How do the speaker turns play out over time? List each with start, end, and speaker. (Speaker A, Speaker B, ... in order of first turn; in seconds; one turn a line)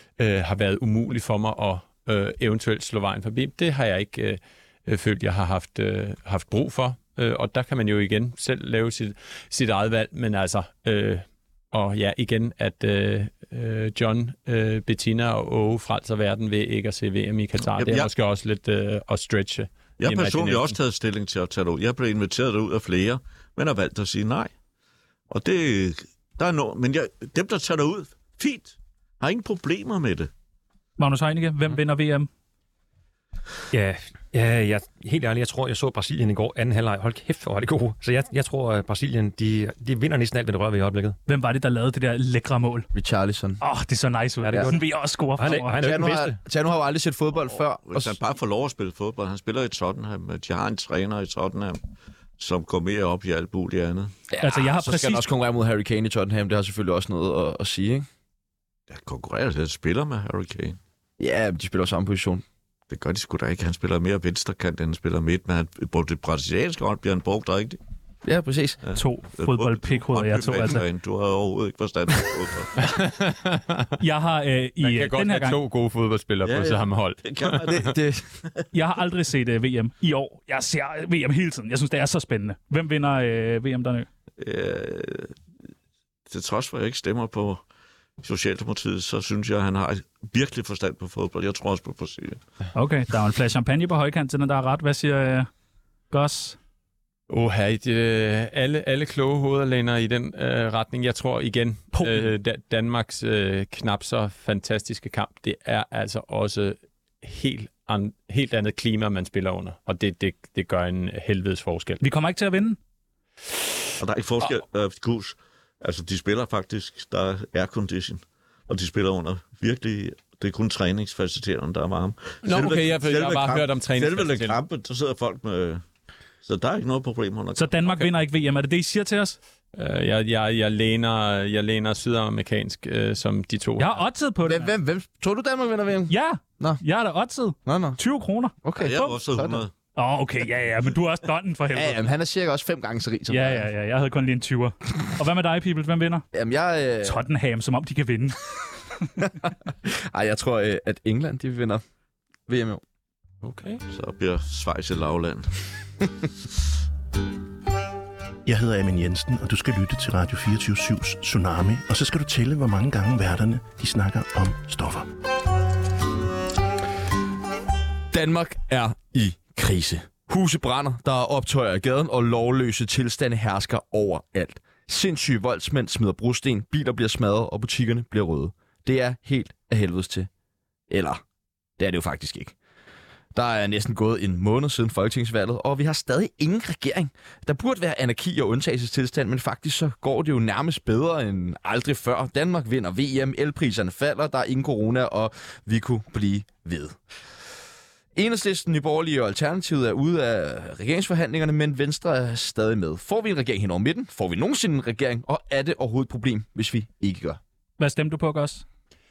Speaker A: 0.2-20.8
Speaker B: 17.7-18.1
Speaker B: 20.0-24.5
Speaker B: 25.3-30.3
Speaker C: 31.0-32.3
Speaker D: 33.7-41.2
Speaker C: 41.3-42.9
Speaker E: 42.9-43.6
Speaker C: 43.6-45.8
Speaker D: 44.4-46.4
Speaker E: 45.8-48.2
Speaker B: 47.5-51.8
Speaker B: 52.4-54.1
Speaker E: 54.3-58.0
Speaker C: 54.4-55.3
Speaker B: 58.9-60.8
Speaker E: 61.2-62.4
Speaker B: 62.9-67.8
Speaker E: 68.2-68.8
Speaker B: 68.8-72.7
Speaker C: 68.9-70.8
Speaker A: 72.8-73.9
Speaker C: 74.0-75.6
Speaker A: 74.8-77.8
Speaker B: 76.4-77.9
Speaker E: 77.8-78.2
Speaker C: 78.7-84.1
Speaker B: 84.4-85.3
Speaker B: 86.3-87.6
Speaker B: 88.2-92.4
Speaker C: 92.7-95.5
Speaker C: 96.1-96.6
Speaker A: 97.3-112.0
Speaker C: 101.9-102.3
Speaker C: 112.0-112.8
Speaker B: 114.0-125.8
Speaker A: 122.4-124.6
Speaker B: 126.4-128.1
Speaker C: 127.5-129.4
Speaker A: 129.7-134.0
Speaker C: 133.8-134.7
Speaker E: 134.4-136.8
Speaker C: 136.1-139.1
Speaker E: 137.6-138.0
Speaker E: 138.6-139.6
Speaker B: 138.8-139.7
Speaker C: 139.9-142.1
Speaker E: 141.7-143.7
Speaker C: 143.3-146.2
Speaker E: 146.3-147.2
Speaker C: 147.0-148.4
Speaker E: 149.2-151.8
Speaker E: 152.5-152.8
Speaker A: 153.4-153.8
Speaker B: 153.9-155.5
Speaker F: 158.4-165.1
Speaker E: 168.1-180.3
Speaker E: 180.9-181.2
Speaker E: 181.8-182.5
Speaker E: 183.3-197.0
Speaker E: 198.1-207.4
Speaker C: 207.8-208.6